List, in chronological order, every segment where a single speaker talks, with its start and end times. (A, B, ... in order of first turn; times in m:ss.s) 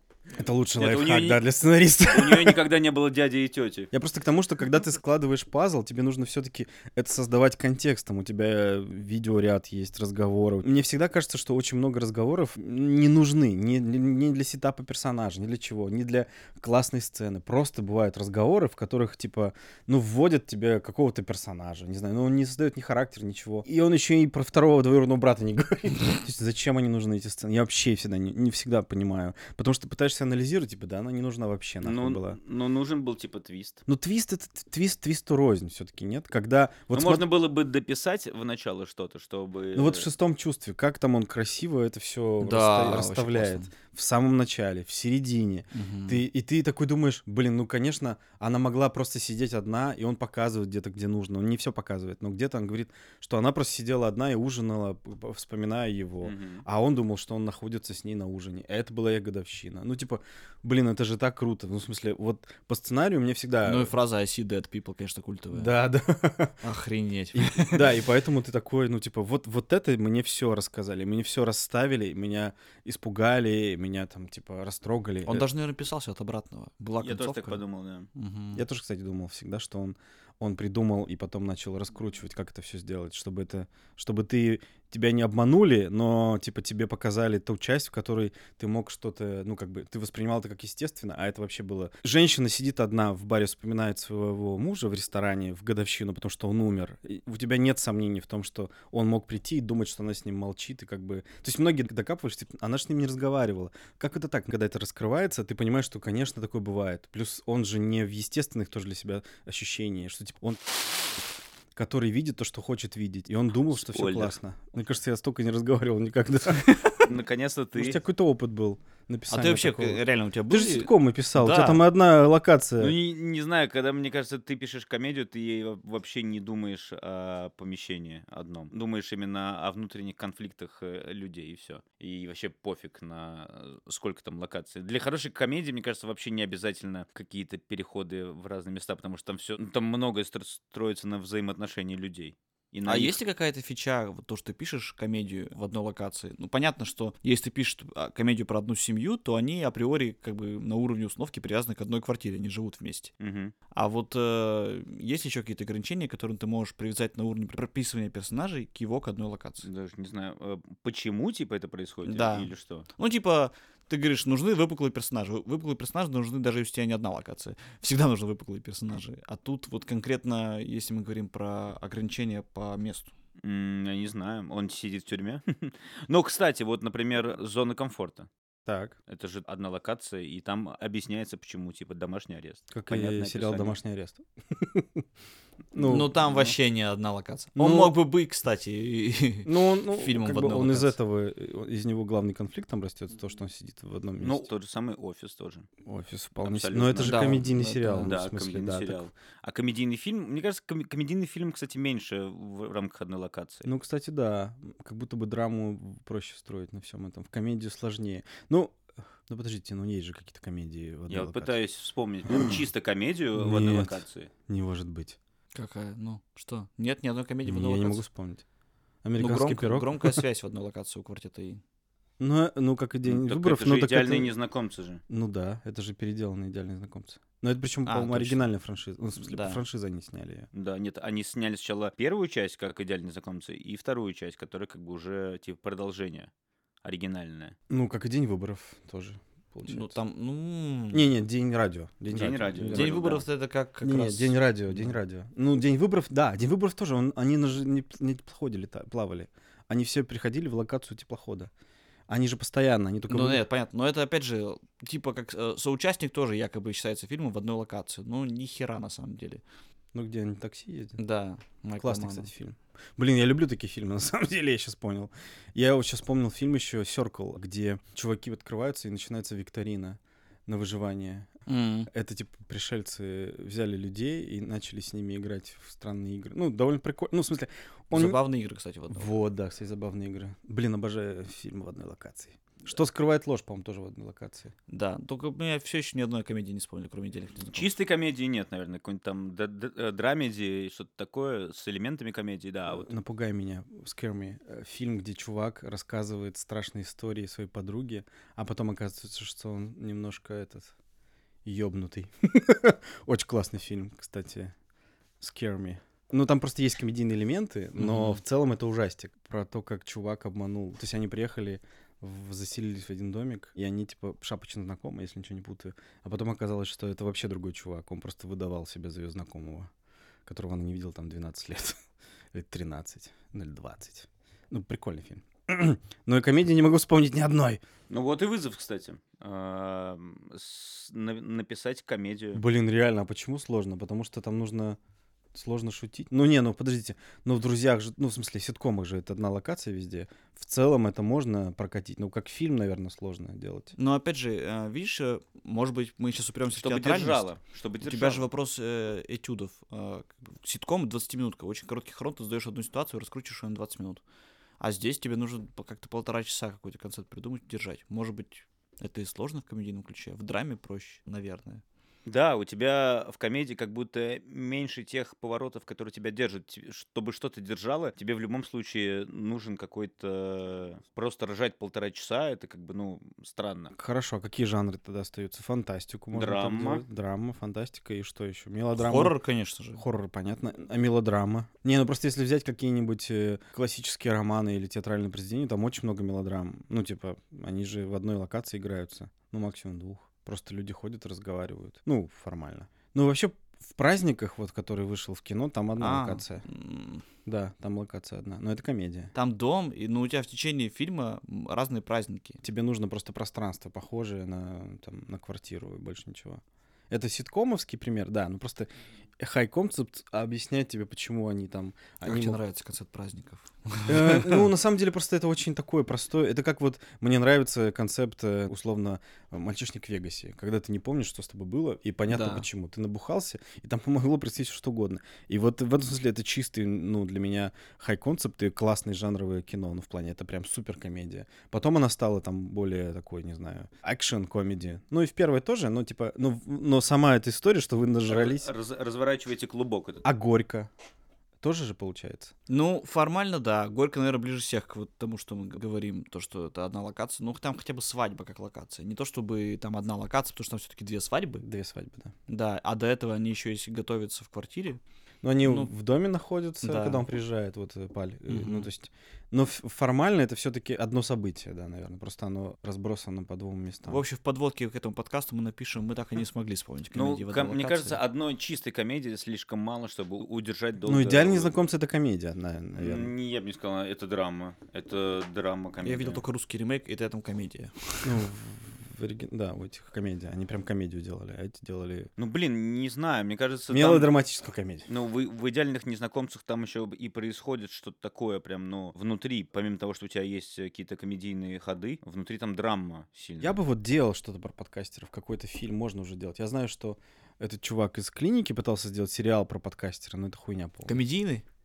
0:00.3-0:02.6 A
0:00.8-0:01.5 B
0:02.0-0:03.9 B
0:03.9-0:32.4 A
0:31.8-0:33.8 B
0:33.9-0:37.2 A
0:36.9-0:40.1 B
0:39.7-1:03.9 A
0:42.4-0:43.7 C
0:45.7-0:46.2 C
0:56.2-0:56.6 B
1:03.6-1:05.7 C
1:05.5-1:06.6 A
1:06.6-1:07.9 C
1:07.3-1:15.5 A
1:15.2-1:17.6 C
1:17.0-1:18.1 B
1:18.1-1:18.6 C
1:18.5-1:56.8 A
1:53.7-1:54.4 B
1:57.0-1:58.0 B
1:57.7-2:02.9 A
1:59.3-2:01.8 C
2:02.8-2:23.2 B
2:22.8-2:33.1 C
2:33.2-2:33.5 B
2:33.7-2:39.7 C
2:39.6-2:42.9 B
2:42.0-2:53.1 C
2:53.4-2:58.3 B
2:58.6-2:59.0 A
2:59.1-3:03.8 B
3:02.7-3:05.0 A
3:05.7-3:06.1 A
3:05.8-3:10.9 C
3:06.2-3:06.5 B
3:07.6-3:07.9 A
3:09.4-3:14.5 A
3:14.2-3:15.7 B
3:15.8-3:19.0 A
3:16.4-3:17.4 B
3:17.0-3:18.1 C
3:18.0-3:23.7 B
3:23.6-3:31.5 A
3:31.1-3:34.3 B
3:32.3-3:32.6 A
3:33.4-3:35.2 A
3:35.5-3:38.0 C
3:37.4-3:38.4 A
3:39.0-3:40.2 A
3:39.2-3:41.6 C
3:42.2-3:44.3 A
3:43.0-3:45.0 B
3:45.1-3:50.5 A
3:47.8-3:48.5 C
3:49.2-3:49.6 C
3:50.5-3:56.3 B
3:56.8-3:57.5 B
3:57.7-3:59.9 A
3:59.6-4:01.1 C
4:00.9-4:03.2 A
4:02.1-4:03.2 B
4:02.7-4:05.0 C
4:03.8-4:11.5 A
4:12.1-4:13.4 A
4:13.1-4:19.4 C
4:19.9-4:21.0 A
4:21.0-4:22.3 C
4:21.8-4:31.3 A
4:31.5-4:31.9 C
4:31.9-4:38.2 A
4:37.9-4:39.1 C
4:38.9-4:44.5 A
4:44.7-4:47.7 C
4:47.5-4:52.9 B
4:52.7-5:00.7 A
5:01.4-5:04.5 A
5:05.2-5:19.7 A
5:07.8-5:08.2 C
5:20.2-5:21.8 A
5:22.3-5:27.6 A
5:27.9-5:32.4 B
5:32.3-5:34.8 A
5:35.3-5:43.7 A
5:43.8-5:47.3 C
5:46.5-5:48.2 B
5:47.8-5:54.0 C
5:54.6-6:01.6 C
6:02.0-6:13.7 B
6:13.7-6:19.2 A
6:16.1-6:16.8 B
6:18.7-6:19.8 C
6:19.8-6:36.4 A
6:35.8-6:37.0 C
6:37.2-6:39.1 A
6:39.1-6:42.4 C
6:42.4-6:52.4 A
6:52.0-6:54.5 C
6:53.9-7:18.5 A
7:02.1-7:02.4 C
7:18.1-7:20.0 B
7:20.0-7:20.7 A
7:21.4-7:22.3 A
7:22.5-7:31.4 C
7:31.4-7:32.1 A
7:32.3-7:34.8 C
7:35.2-7:44.0 A
7:35.4-7:35.7 C
7:36.6-7:37.1 C
7:38.3-7:38.7 C
7:43.9-7:48.0 C
7:46.9-7:51.5 B
7:50.8-7:53.1 A
7:52.8-7:56.2 B
7:55.8-7:58.2 C
7:58.0-8:02.1 A
8:02.2-8:04.1 B
8:03.7-8:04.9 A
8:04.9-8:13.6 B
8:13.4-8:20.9 A
8:20.8-8:21.4 C